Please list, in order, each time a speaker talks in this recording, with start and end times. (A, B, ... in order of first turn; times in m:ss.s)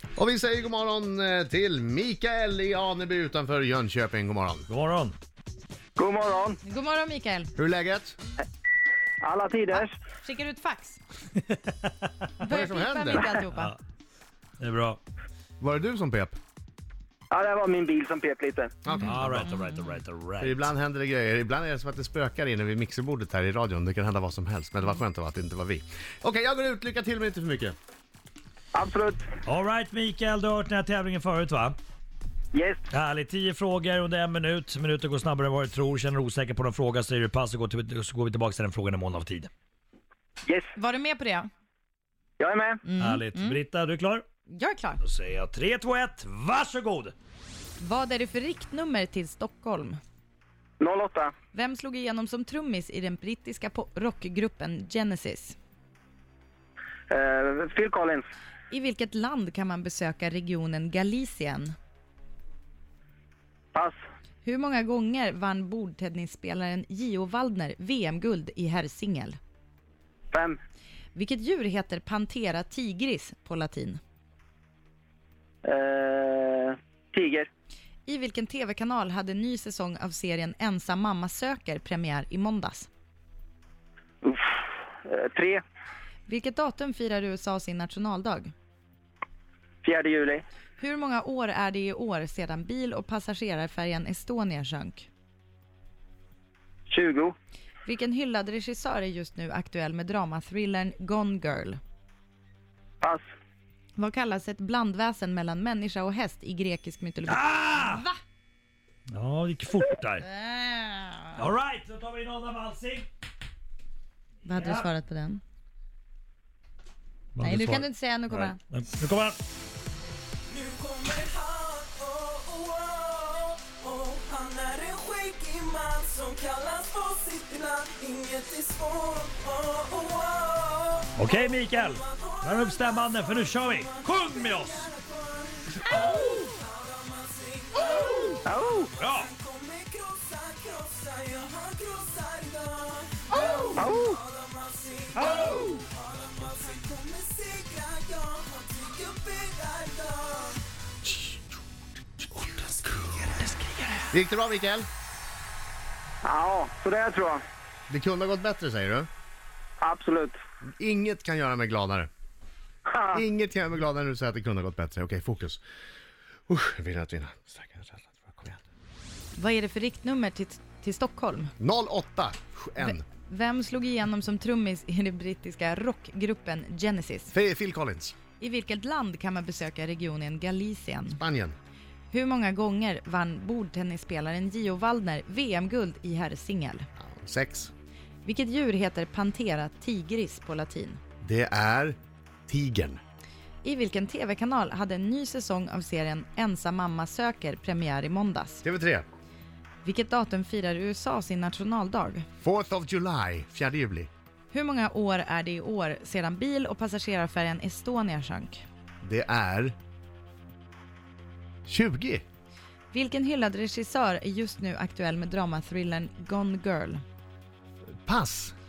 0:00.2-0:04.7 A
0:04.7-0:05.2 B
0:06.0-0:06.6 C
0:06.6-0:07.5 D
0:07.6-0:08.2 A
0:09.2-0:09.9 C
0:10.2-0:11.0 D
0:12.4-0:13.8 D
0:12.4-0:13.3 A
0:14.6-0:15.0 B
0:15.6-0:16.4 A
0:17.3-0:18.7 C
0:18.8-0:19.6 A
0:19.0-0:20.6 B
0:20.4-0:27.8 A
0:28.7-0:29.3 C
0:29.4-0:31.8 B
0:32.5-0:32.8 C
0:32.9-0:39.5 B
0:40.4-0:40.7 C
0:40.8-0:41.5 D
0:42.4-0:42.8 C
0:42.8-0:43.6 D
0:43.0-0:44.2 B
0:44.5-0:45.0 D
0:45.0-0:47.2 B
0:47.8-0:50.0 D
0:50.8-0:51.3 C
0:51.5-0:55.6 D
0:57.1-0:58.3 C
0:58.7-1:01.7 D
1:04.4-1:09.4 D
1:10.3-1:10.6 C
1:11.2-1:14.0 D
1:15.6-1:17.5 C
1:18.1-1:22.9 D
1:24.2-1:25.6 C
1:26.3-1:28.5 D
1:29.8-1:30.4 C
1:30.8-1:35.1 D
1:36.9-1:37.4 C
1:37.9-1:41.8 D
1:44.0-1:48.2 D
1:47.3-1:48.0 B
1:49.1-1:50.3 B
1:50.2-1:51.4 D
1:51.4-1:53.1 B
1:54.4-1:55.4 D
1:54.5-1:54.9 B
1:57.4-1:59.4 B
1:57.4-1:58.6 D
2:00.5-2:30.6 E
2:11.2-2:14.9 B
2:18.4-2:18.9 C
2:19.0-2:19.3 B
2:23.3-2:23.8 D
2:23.8-2:24.2 C
2:25.3-2:25.7 D
2:33.3-2:34.0 B
2:34.1-2:34.9 A
2:36.2-2:37.4 C
2:37.9-2:39.1 A
2:39.8-2:40.4 C
2:40.8-2:42.1 A
2:42.9-2:43.2 C
2:43.1-2:45.6 A
2:46.5-2:48.6 A
2:49.4-2:51.5 D
2:51.6-2:53.0 A
2:52.8-2:57.3 D
2:57.3-2:58.2 A
2:58.4-3:01.2 D
3:01.2-3:01.6 A
3:02.1-3:06.9 D
3:07.0-3:07.7 A
3:08.2-3:11.0 D
3:11.2-3:12.0 A
3:12.5-3:13.0 A
3:13.6-3:18.6 D
3:18.6-3:19.1 A
3:19.8-3:22.3 D
3:22.4-3:24.1 A
3:24.5-3:28.6 D
3:29.0-3:29.8 A
3:31.7-3:32.2 A
3:32.9-3:37.0 D
3:38.1-3:38.5 A